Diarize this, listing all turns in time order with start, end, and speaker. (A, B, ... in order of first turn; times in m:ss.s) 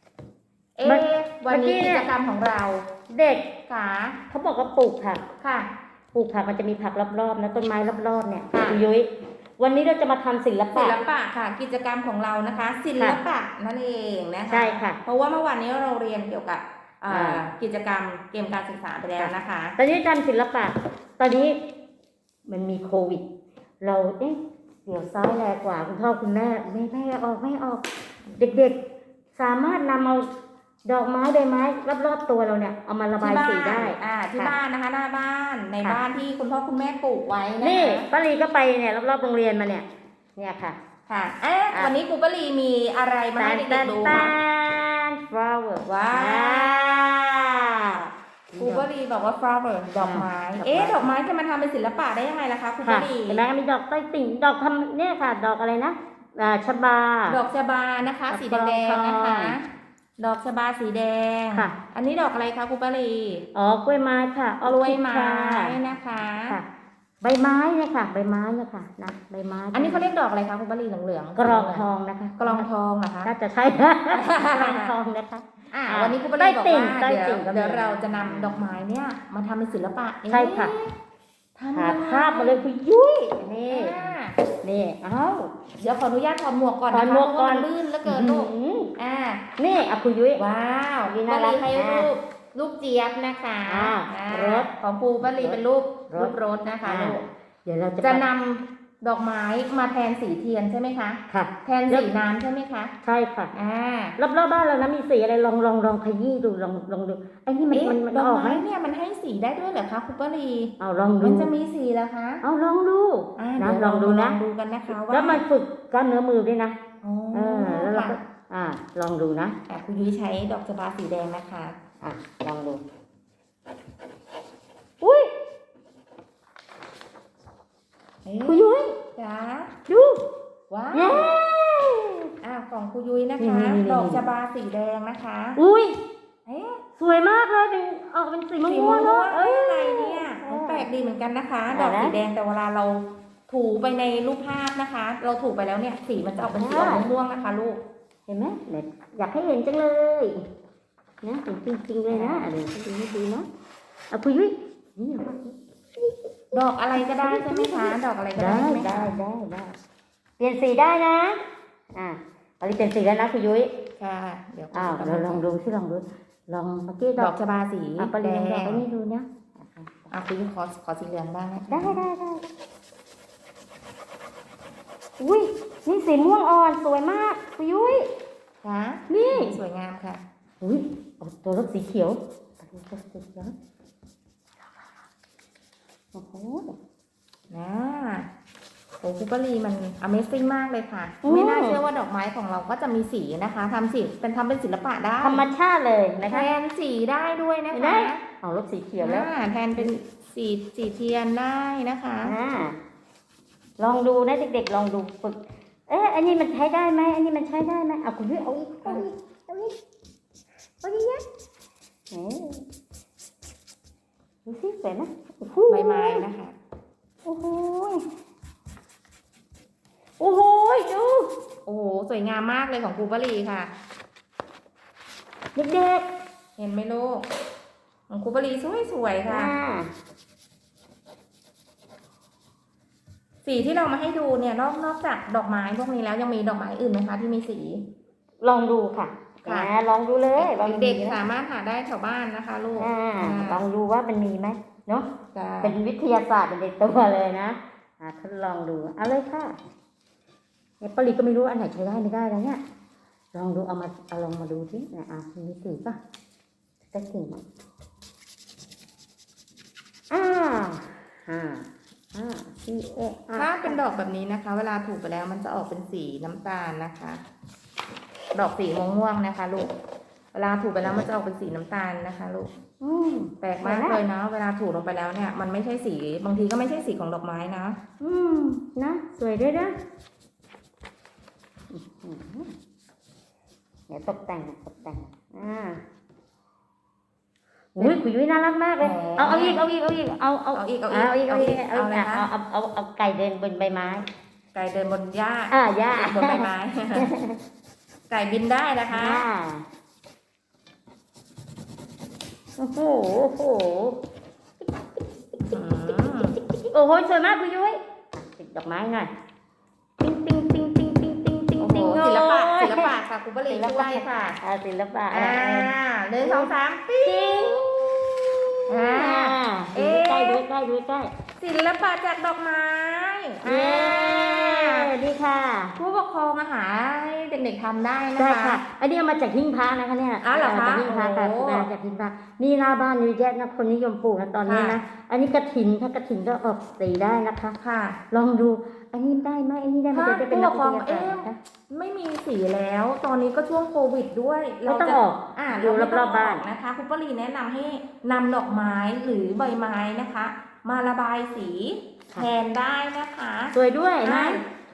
0:00.8-0:02.8 A
0:00.8-0:02.1 B
0:03.1-0:03.5 B
0:03.7-0:04.2 A
0:04.3-0:05.2 B
0:05.4-0:05.7 A
0:06.1-0:11.0 B
0:08.5-0:08.8 A
0:10.7-0:19.7 A
0:14.5-0:15.0 B
0:17.1-0:17.4 B
0:19.2-0:21.6 B
0:22.4-0:23.2 B
0:23.8-0:28.8 B
0:29.3-0:30.3 B
0:30.8-0:34.6 B
0:33.2-0:38.1 A
0:37.6-0:40.8 B
0:41.1-0:44.3 A
0:43.4-0:48.9 B
0:45.8-0:46.8 A
0:48.6-0:53.4 A
0:49.9-0:51.1 B
0:52.8-0:57.4 B
0:57.3-0:59.6 A
0:58.3-0:59.6 B
1:00.2-1:03.4 A
1:03.5-1:05.8 B
1:04.6-1:06.6 A
1:07.2-1:10.1 B
1:09.7-1:11.8 A
1:11.4-1:12.7 B
1:12.4-1:13.3 A
1:13.2-1:18.6 B
1:14.1-1:14.9 A
1:15.7-1:20.9 A
1:20.3-1:20.8 B
1:21.6-1:22.6 A
1:21.7-1:25.5 B
1:23.7-1:24.4 A
1:25.8-1:29.4 A
1:26.9-1:28.9 B
1:29.6-1:30.4 B
1:30.4-1:37.2 A
1:31.1-1:32.1 B
1:33.6-1:35.6 B
1:36.1-1:38.2 B
1:38.0-1:42.9 A
1:41.3-1:42.1 B
1:43.0-1:43.5 B
1:43.5-1:44.1 A
1:44.2-1:48.6 B
1:47.7-1:52.4 A
1:50.8-1:51.5 B
1:52.4-1:54.4 B
1:53.4-1:55.4 A
1:54.9-1:56.8 B
1:57.0-1:58.2 A
1:57.3-1:59.6 B
1:59.7-2:01.8 A
2:02.0-2:02.8 B
2:05.0-2:05.3 B
2:08.2-2:08.6 A
2:08.4-2:09.0 B
2:09.1-2:09.7 A
2:09.9-2:10.2 B
2:10.7-2:11.3 A
2:10.9-2:12.3 B
2:12.4-2:15.6 A
2:13.4-2:14.2 B
2:15.6-2:16.0 B
2:16.4-2:16.8 A
2:17.0-2:20.8 B
2:18.6-2:27.8 A
2:21.7-2:22.2 B
2:26.5-2:27.1 B
2:28.3-2:30.4 B
2:31.2-2:33.5 B
2:32.1-2:32.5 A
2:34.1-2:39.8 B
2:36.5-2:39.1 A
2:40.4-2:43.7 B
2:44.0-2:45.4 A
2:44.7-2:47.3 B
2:47.2-2:48.8 A
2:48.0-2:50.1 B
2:50.1-2:52.0 A
2:51.7-2:52.5 B
2:55.2-2:58.1 B
2:58.6-3:00.2 A
2:59.1-2:59.6 B
3:00.6-3:03.5 B
3:06.1-3:06.8 B
3:07.5-3:08.3 A
3:09.0-3:15.4 A
3:11.2-3:11.8 B
3:15.2-3:16.5 B
3:16.3-3:18.2 A
3:17.7-3:19.9 B
3:19.0-3:22.3 A
3:22.2-3:22.8 B
3:23.8-3:29.8 B
3:30.8-3:31.2 B
3:32.1-3:32.6 B
3:34.4-3:36.2 B
3:35.7-3:36.6 A
3:37.2-3:38.0 B
3:40.2-3:41.3 B
3:41.6-3:43.7 A
3:45.5-3:46.0 B
3:46.6-3:47.3 A
3:48.1-3:49.5 A
3:49.3-3:49.9 B
3:53.4-3:57.8 A
3:58.4-4:01.2 B
3:59.4-3:59.7 A
4:00.4-4:03.6 A
4:02.8-4:05.1 B
4:05.3-4:05.8 A
4:05.6-4:09.6 B
4:10.8-4:12.6 B
4:13.3-4:16.0 B
4:16.9-4:17.5 B
4:20.1-4:23.8 B
4:23.4-4:27.2 A
4:28.3-4:29.7 A
4:30.3-4:32.5 A
4:32.8-4:34.0 B
4:33.4-4:37.8 A
4:38.0-4:39.7 B
4:41.7-4:42.5 B
4:43.9-4:45.8 B
4:47.7-4:54.0 B
4:48.8-4:49.7 A
4:50.5-4:52.3 A
4:54.5-4:57.1 A
4:55.5-4:57.4 B
4:58.1-4:59.2 A
4:58.9-4:59.6 B
5:02.6-5:04.0 B
5:05.4-5:06.4 A
5:05.4-5:09.1 B
5:10.0-5:12.9 B
5:11.6-5:14.4 A
5:13.5-5:16.5 B
5:15.1-5:17.5 A
5:17.0-5:21.1 B
5:18.7-5:20.4 A
5:21.4-5:24.9 A
5:23.4-5:25.8 B
5:25.8-5:28.6 A
5:28.2-5:37.6 B
5:30.2-5:31.7 A
5:34.4-5:34.8 A
5:37.6-5:38.0 A
5:38.1-5:41.4 B
5:39.9-5:54.4 A
5:44.7-5:46.4 B
5:53.5-5:54.4 B